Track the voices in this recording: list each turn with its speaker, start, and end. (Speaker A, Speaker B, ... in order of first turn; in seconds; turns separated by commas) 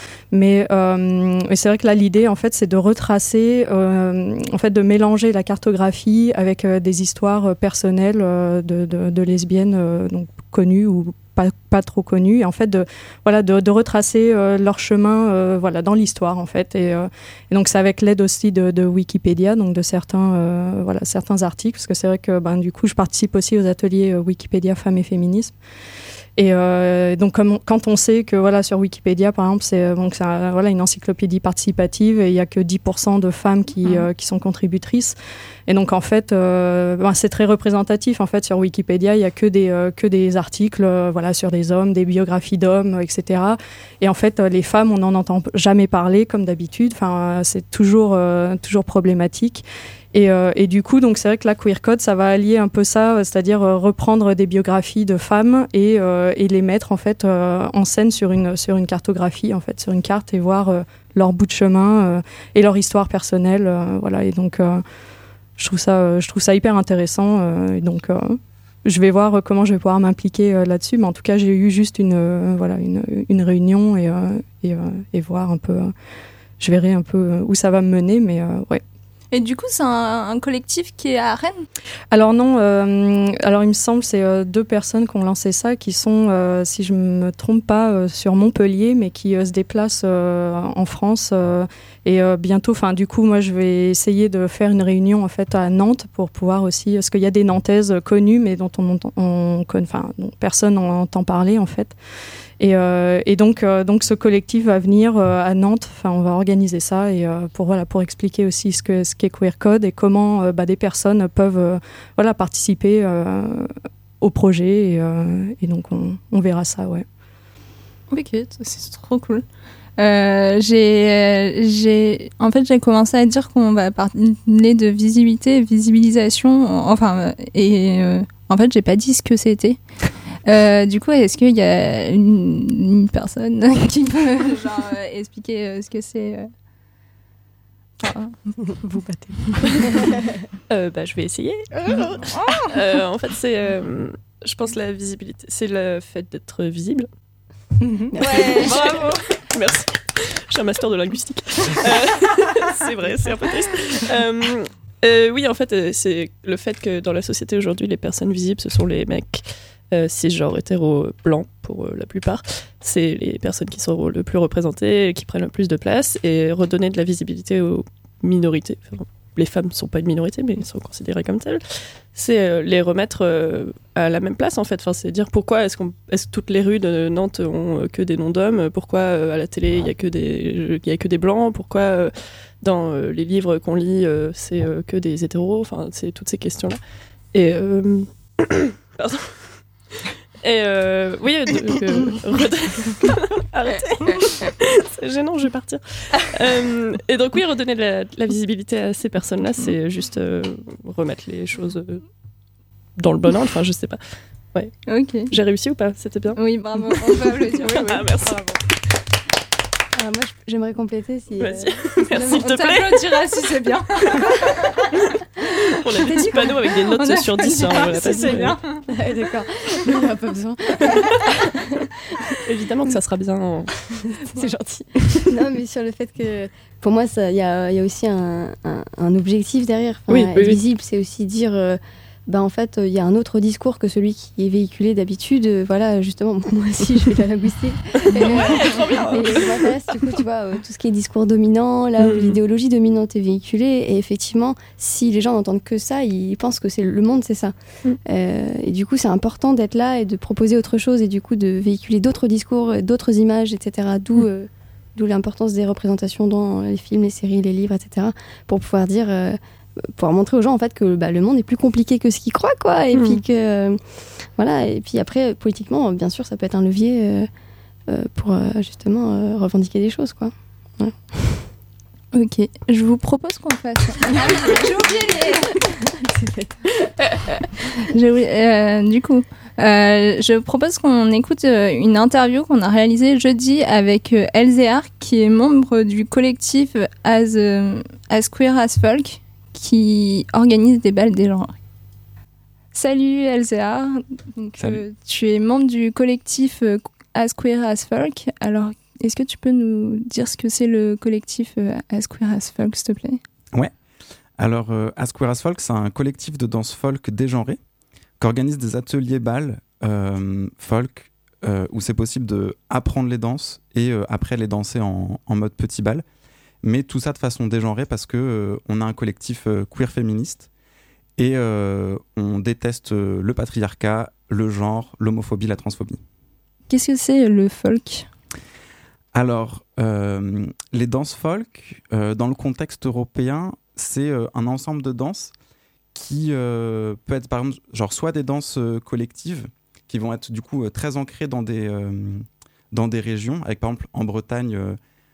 Speaker A: 0.3-25.6, Speaker A: 26.4-35.1, Speaker A: 35.7-64.8, Speaker A: 65.6-75.9, Speaker A: 76.6-78.8, Speaker B: 79.3-81.7, Speaker A: 82.1-102.0, Speaker A: 102.6-117.0, Speaker B: 118.1-119.4, Speaker B: 120.0-129.8, Speaker B: 130.4-136.5, Speaker B: 138.0-138.3, Speaker C: 138.7-139.3, Speaker D: 140.7-142.2, Speaker B: 142.3-142.5, Speaker D: 142.7-147.1, Speaker C: 148.1-148.9, Speaker B: 148.3-148.7, Speaker D: 148.3-186.8, Speaker D: 187.3-189.4, Speaker D: 190.4-202.0, Speaker D: 203.0-204.0, Speaker B: 204.9-205.3, Speaker D: 205.3-208.6, Speaker B: 206.3-208.0, Speaker C: 210.0-212.4, Speaker D: 211.4-213.2, Speaker B: 212.2-214.4, Speaker D: 215.8-218.6, Speaker B: 216.1-218.8, Speaker C: 217.8-218.3, Speaker C: 218.9-220.9, Speaker D: 222.4-223.7, Speaker C: 224.3-247.5, Speaker D: 230.1-230.6, Speaker D: 238.1-240.2, Speaker D: 242.0-242.4, Speaker C: 248.1-259.4, Speaker C: 259.9-263.8, Speaker D: 262.9-263.2, Speaker C: 264.4-267.3, Speaker C: 267.9-271.4, Speaker B: 272.1-275.6, Speaker C: 276.1-276.6, Speaker B: 277.9-291.5, Speaker B: 292.7-303.2, Speaker E: 304.4-307.6, Speaker E: 308.2-316.0, Speaker E: 316.6-320.5, Speaker E: 321.2-326.0, Speaker B: 326.7-328.1, Speaker E: 329.1-335.3, Speaker E: 335.9-344.8